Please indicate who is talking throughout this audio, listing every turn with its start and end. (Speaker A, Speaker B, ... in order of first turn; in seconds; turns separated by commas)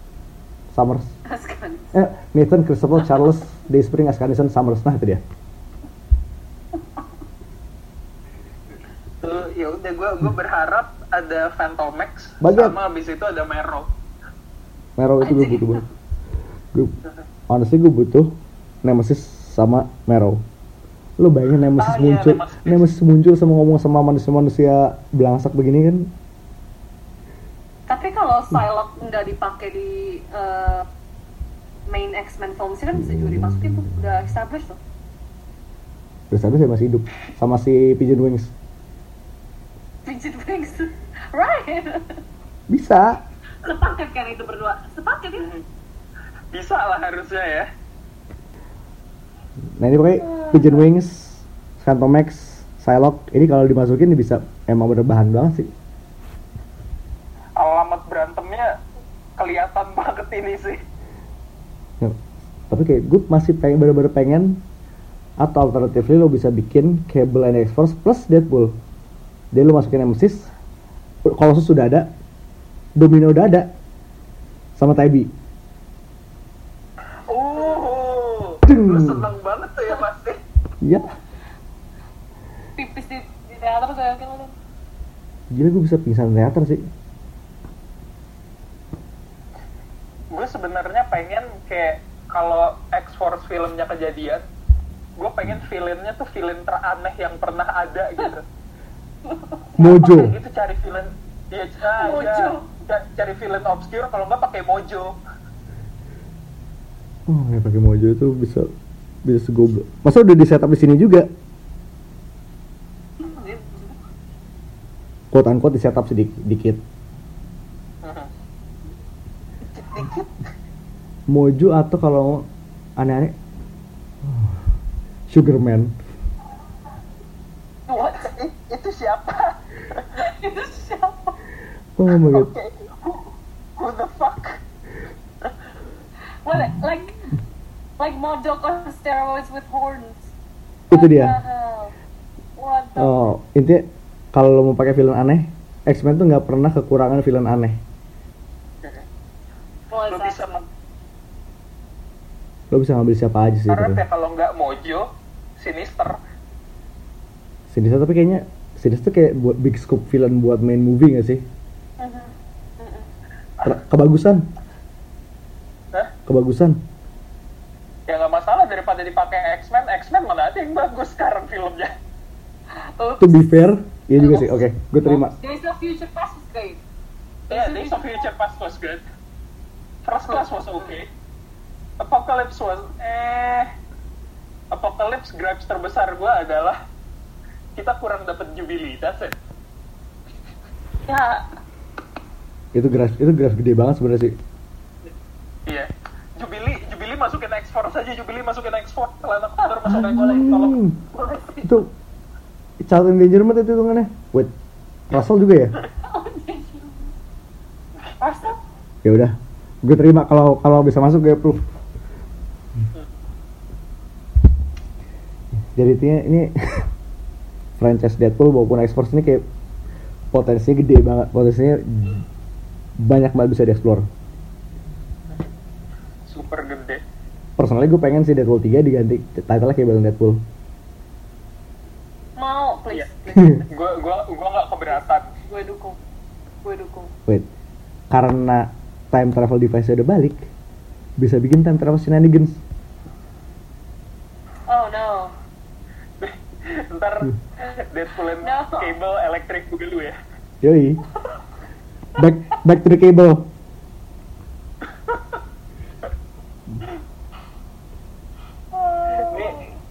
Speaker A: 0.7-1.1, Speaker B: 1.3-1.9, Speaker A: 1.9-5.2, Speaker C: 9.2-13.9, Speaker A: 12.4-12.8, Speaker A: 15.0-15.8, Speaker B: 15.2-15.8, Speaker A: 17.5-20.4, Speaker A: 21.2-26.1, Speaker C: 21.8-22.9, Speaker B: 27.9-30.9, Speaker B: 31.9-34.8, Speaker A: 33.1-33.8, Speaker A: 36.3-38.5, Speaker B: 40.0-42.2, Speaker A: 42.7-43.2, Speaker B: 43.6-45.5, Speaker C: 46.5-47.7, Speaker A: 49.8-55.7, Speaker B: 50.2-50.8, Speaker C: 57.6-58.7, Speaker C: 59.4-60.8, Speaker A: 62.7-64.6, Speaker A: 65.4-68.7, Speaker A: 69.5-70.5, Speaker A: 71.2-72.1, Speaker A: 73.0-73.7, Speaker A: 74.8-75.3, Speaker C: 77.3-80.4, Speaker A: 78.6-79.3, Speaker A: 80.8-81.1, Speaker B: 82.8-84.5, Speaker A: 85.5-86.8, Speaker C: 90.3-94.4, Speaker C: 95.2-98.4, Speaker B: 99.2-99.7, Speaker C: 99.8-105.2, Speaker A: 99.8-100.3, Speaker B: 101.8-102.7, Speaker A: 107.3-108.7, Speaker A: 109.2-111.3, Speaker B: 113.2-114.0, Speaker A: 115.3-116.8, Speaker C: 118.0-118.3, Speaker C: 119.7-120.5, Speaker A: 121.3-122.5, Speaker A: 123.0-123.3, Speaker A: 125.3-125.9, Speaker B: 127.9-128.3, Speaker C: 128.2-130.1, Speaker B: 130.2-131.3, Speaker A: 132.0-132.5, Speaker C: 132.3-134.6, Speaker B: 136.4-137.3, Speaker B: 138.0-140.3, Speaker B: 140.9-141.9, Speaker A: 140.9-141.4, Speaker B: 142.6-143.2, Speaker A: 143.0-147.8, Speaker B: 149.9-150.6, Speaker C: 150.1-150.6, Speaker A: 152.7-154.0, Speaker C: 153.7-156.2, Speaker A: 157.7-161.4, Speaker B: 162.0-163.1, Speaker A: 163.6-164.4, Speaker A: 166.3-166.8, Speaker C: 168.1-171.9, Speaker B: 173.0-176.8, Speaker A: 173.2-175.3, Speaker B: 177.5-178.3, Speaker C: 177.5-179.0, Speaker C: 180.0-181.1, Speaker B: 180.3-180.9, Speaker C: 182.0-183.7, Speaker C: 184.7-186.8, Speaker C: 187.8-189.4, Speaker B: 191.1-191.5, Speaker A: 192.7-194.3, Speaker C: 195.7-200.8, Speaker A: 199.9-201.0, Speaker B: 201.1-201.8, Speaker A: 201.6-201.9, Speaker A: 202.8-204.5, Speaker A: 205.1-205.7, Speaker B: 206.0-207.1, Speaker B: 208.2-208.6, Speaker A: 209.0-211.7, Speaker A: 215.7-216.9, Speaker A: 217.8-219.4, Speaker A: 220.3-222.2, Speaker A: 223.0-224.1, Speaker C: 226.2-227.0, Speaker A: 227.6-230.4, Speaker B: 232.4-233.7, Speaker A: 233.3-233.6, Speaker C: 233.7-235.3, Speaker B: 235.4-236.0, Speaker B: 236.6-237.1, Speaker A: 238.1-240.5, Speaker A: 241.2-242.6, Speaker B: 244.7-245.3, Speaker C: 246.2-250.2, Speaker B: 248.4-248.9, Speaker A: 250.6-251.0, Speaker A: 252.2-253.5, Speaker B: 258.7-259.8, Speaker C: 259.2-259.6